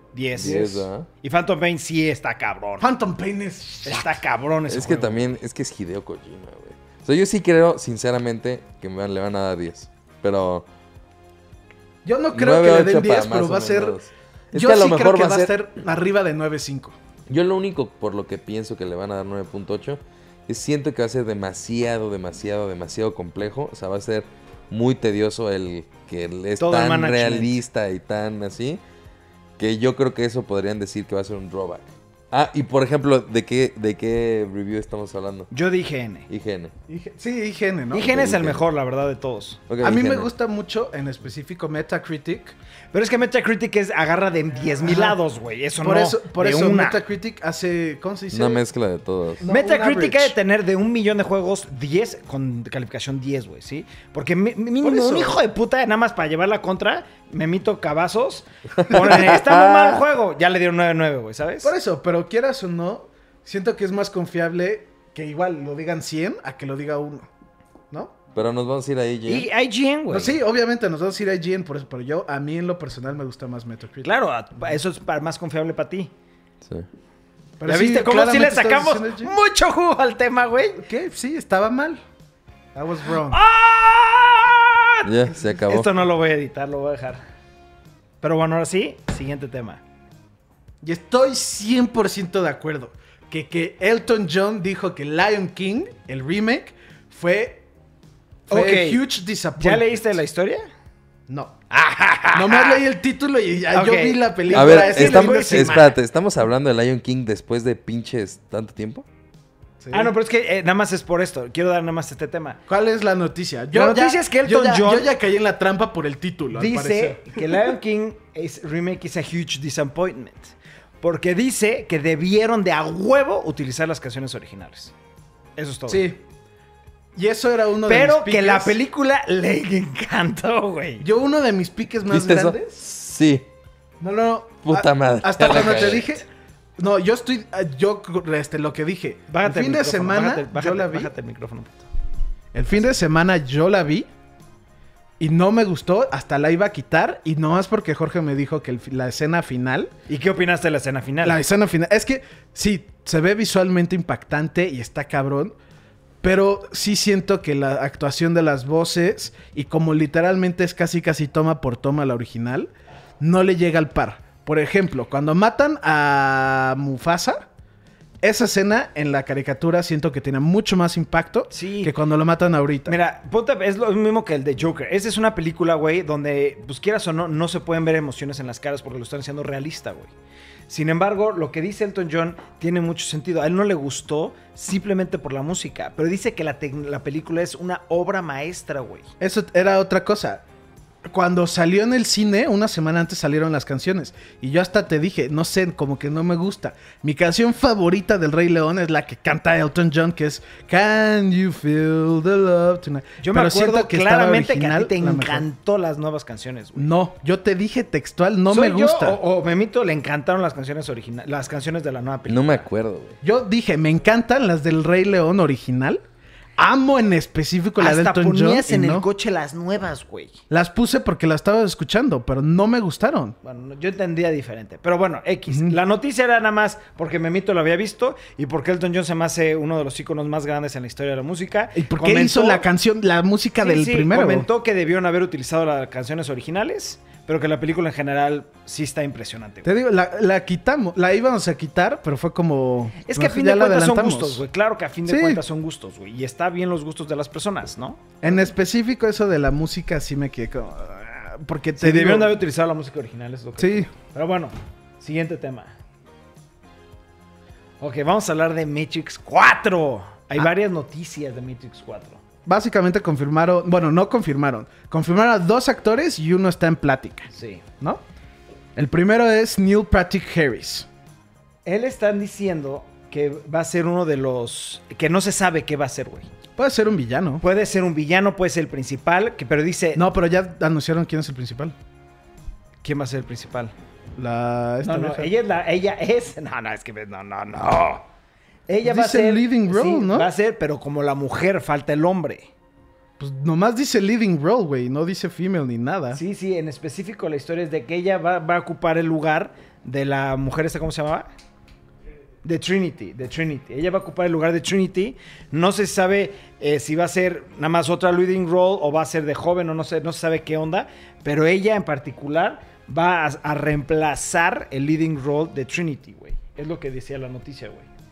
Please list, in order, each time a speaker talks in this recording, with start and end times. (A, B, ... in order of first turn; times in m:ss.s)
0:00.1-0:02.9 A
0:00.3-0:01.1 B
0:02.8-0:04.2 C
0:03.8-0:05.3 A
0:04.7-0:10.7 B
0:12.0-0:14.0 C
0:12.3-0:15.5 B
0:14.5-0:17.0 C
0:17.3-0:28.8 B
0:26.6-0:27.6 A
0:29.6-0:35.5 B
0:35.5-0:36.3 A
0:36.3-0:36.7 B
0:36.9-0:38.2 C
0:37.9-0:39.6 A
0:38.1-0:38.6 B
0:39.7-0:40.3 B
0:39.8-0:42.6 C
0:42.9-0:47.0 A
0:44.8-0:45.2 C
0:45.8-0:48.6 C
0:48.3-0:49.4 B
0:49.4-0:50.3 C
0:49.4-1:01.7 A
0:54.8-0:55.4 C
0:58.8-1:00.0 B
1:01.6-1:07.3 C
1:07.9-1:08.2 C
1:08.4-1:09.5 B
1:09.3-1:10.4 A
1:10.1-1:14.1 C
1:14.0-1:16.1 A
1:17.6-1:19.4 C
1:17.6-1:20.8 A
1:20.8-1:22.0 C
1:22.8-1:23.4 C
1:23.3-1:25.1 A
1:25.0-1:25.9 B
1:25.6-1:27.2 A
1:28.2-1:29.8 A
1:30.8-1:37.7 C
1:38.5-1:40.0 C
1:38.5-1:39.0 A
1:39.6-1:40.7 A
1:41.3-1:41.6 C
1:41.7-1:42.8 A
1:42.3-1:45.9 C
1:43.7-1:45.9 A
1:44.5-1:49.0 B
1:49.8-1:50.1 C
1:49.9-1:52.6 A
1:52.7-1:57.7 C
1:53.7-1:55.1 A
1:56.5-2:04.9 A
2:05.6-2:06.1 A
2:05.9-2:06.2 C
2:07.2-2:08.8 C
2:07.8-2:11.1 A
2:11.0-2:12.8 C
2:12.1-2:13.5 B
2:14.0-2:16.2 C
2:14.6-2:16.1 B
2:16.8-2:21.1 C
2:19.3-2:21.9 A
2:22.5-2:24.1 C
2:25.2-2:29.9 C
2:30.1-2:31.4 A
2:31.2-2:35.6 C
2:36.2-2:42.7 C
2:43.2-2:47.4 C
2:48.2-2:53.0 C
2:51.5-2:51.9 A
2:52.9-3:00.1 A
3:00.7-3:09.1 A
3:09.2-3:10.4 C
3:11.0-3:25.5 C
3:23.2-3:26.9 A
3:26.8-3:29.2 C
3:28.5-3:32.7 A
3:32.3-3:33.2 B
3:33.2-3:36.0 C
3:36.6-3:39.1 C
3:37.8-3:40.4 A
3:40.5-3:43.4 C
3:43.4-3:52.6 A
3:45.5-3:45.8 C
3:51.8-3:54.5 C
3:53.6-3:59.7 A
3:59.6-4:04.4 C
4:03.0-4:08.4 A
4:05.1-4:05.4 C
4:08.2-4:12.4 C
4:11.8-4:15.8 A
4:13.6-4:13.9 C
4:17.8-4:22.2 A
4:22.5-4:27.3 C
4:27.3-4:27.6 A
4:28.8-4:30.9 C
4:31.7-4:36.3 A
4:36.6-4:37.4 C
4:37.4-4:40.0 A
4:40.0-4:41.8 C
4:42.8-4:43.7 A
4:44.2-4:45.3 C
4:44.8-4:48.1 A
4:48.7-4:52.5 A
4:48.8-4:50.3 C
4:53.2-4:56.2 C
4:56.1-5:01.3 A
5:02.4-5:17.9 A